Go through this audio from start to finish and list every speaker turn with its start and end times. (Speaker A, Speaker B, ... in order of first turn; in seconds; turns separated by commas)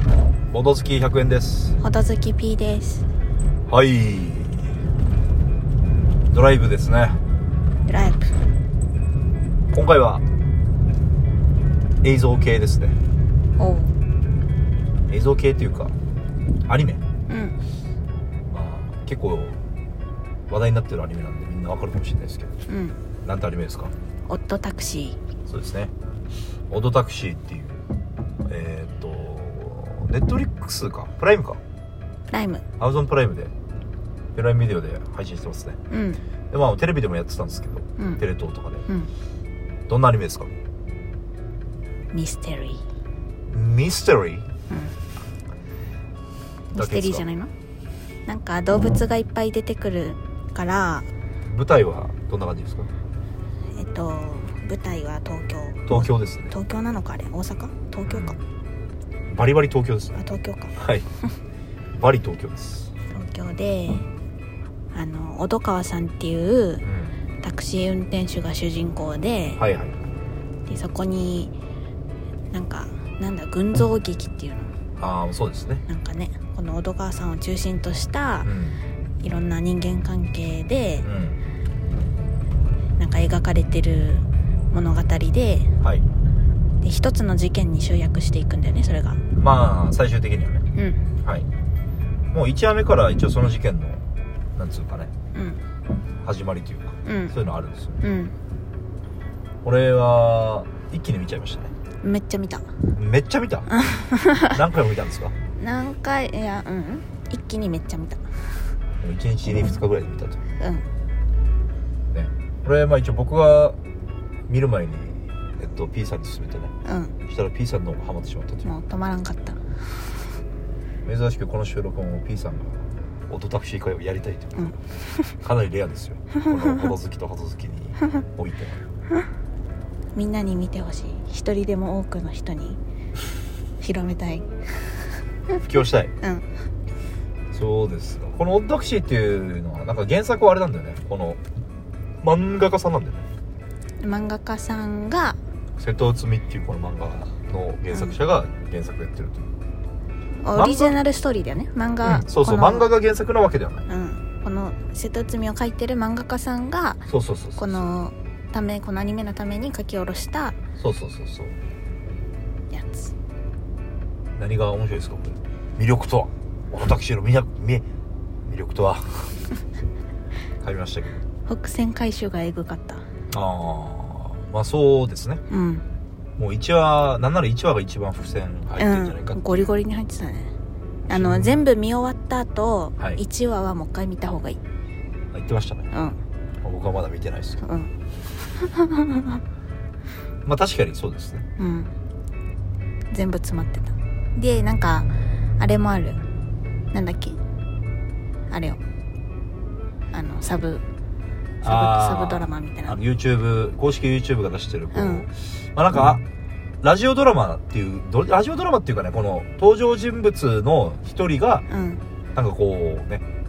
Speaker A: 0.5-1.8, Speaker B: 1.8-3.1, Speaker A: 3.7-4.7, Speaker A: 6.3-7.2, Speaker B: 7.9-8.3, Speaker A: 9.7-10.2, Speaker A: 12.0-13.0, Speaker B: 13.6-13.9, Speaker A: 15.1-15.9, Speaker A: 16.7-17.0, Speaker B: 17.3-17.6, Speaker A: 18.5-19.6, Speaker A: 20.5-22.6, Speaker B: 22.7-23.0, Speaker A: 23.2-23.9, Speaker B: 24.3-25.2, Speaker A: 25.5-25.9, Speaker A: 26.7-27.8, Speaker A: 28.5-31.6, Speaker B: 32.3-32.6, Speaker A: 32.8-33.5, Speaker A: 34.4-35.8, Speaker B: 35.9-36.2, Speaker A: 36.5-38.9, Speaker A: 39.9-40.5, Speaker B: 42.1-42.8, Speaker A: 43.5-44.5, Speaker B: 44.7-45.0, Speaker B: 46.7-47.5, Speaker A: 46.8-47.3, Speaker B: 48.3-51.1, Speaker A: 51.5-52.9, Speaker B: 53.8-58.4, Speaker A: 55.9-56.5, Speaker A: 58.1-58.4, Speaker A: 59.3-60.2, Speaker B: 60.1-60.8, Speaker A: 60.8-61.1, Speaker A: 62.0-62.9, Speaker B: 63.1-64.1, Speaker B: 64.9-66.8, Speaker A: 66.8-67.2, Speaker B: 67.4-69.6, Speaker A: 69.6-70.0, Speaker B: 70.7-71.5, Speaker B: 72.5-74.7, Speaker A: 75.0-75.8, Speaker B: 75.9-78.5, Speaker A: 78.4-78.8, Speaker B: 79.2-81.1, Speaker A: 81.0-81.4, Speaker B: 83.0-85.7, Speaker B: 86.8-89.2, Speaker A: 89.4-90.7, Speaker B: 90.8-91.1, Speaker A: 92.3-94.0, Speaker A: 94.6-95.1, Speaker B: 95.3-95.6, Speaker A: 96.2-98.0, Speaker B: 97.0-97.3, Speaker B: 98.0-98.3, Speaker A: 99.6-101.7, Speaker B: 102.0-102.7, Speaker A: 103.0-103.7, Speaker B: 103.7-104.6, Speaker A: 104.5-105.3, Speaker B: 105.6-108.6, Speaker A: 109.0-110.4, Speaker B: 110.6-110.9, Speaker A: 112.1-113.8, Speaker A: 114.5-116.7, Speaker B: 116.8-117.2, Speaker A: 117.3-118.7, Speaker B: 118.7-119.6, Speaker A: 121.0-124.8, Speaker A: 125.4-128.8, Speaker B: 126.5-126.9, Speaker B: 130.2-132.8, Speaker B: 133.8-134.9, Speaker A: 135.6-136.1, Speaker B: 136.2-136.5, Speaker A: 137.5-141.4, Speaker A: 142.2-143.3, Speaker B: 144.0-145.4, Speaker A: 145.8-149.5, Speaker B: 150.4-152.9, Speaker A: 150.6-151.0, Speaker A: 152.0-153.9, Speaker B: 153.9-157.1, Speaker A: 157.1-157.8, Speaker B: 157.6-160.6, Speaker A: 160.8-161.6, Speaker B: 162.7-163.1, Speaker A: 164.4-167.8, Speaker A: 168.5-169.3, Speaker A: 170.6-171.2, Speaker B: 171.5-173.0, Speaker A: 173.3-175.4, Speaker B: 175.5-175.8, Speaker A: 176.4-179.7, Speaker B: 178.8-180.5, Speaker A: 181.1-181.6, Speaker B: 181.1-184.6, Speaker A: 185.3-185.9, Speaker B: 185.9-186.2, Speaker A: 186.6-187.6, Speaker B: 187.6-187.9, Speaker B: 188.6-189.4, Speaker A: 190.4-191.5, Speaker B: 191.6-191.9, Speaker B: 193.1-196.2, Speaker B: 196.9-197.4, Speaker B: 198.5-198.8, Speaker B: 200.1-200.8, Speaker B: 201.6-203.0, Speaker A: 201.6-206.2, Speaker B: 204.9-205.3, Speaker A: 206.8-211.7, Speaker B: 211.7-212.0, Speaker A: 212.3-213.2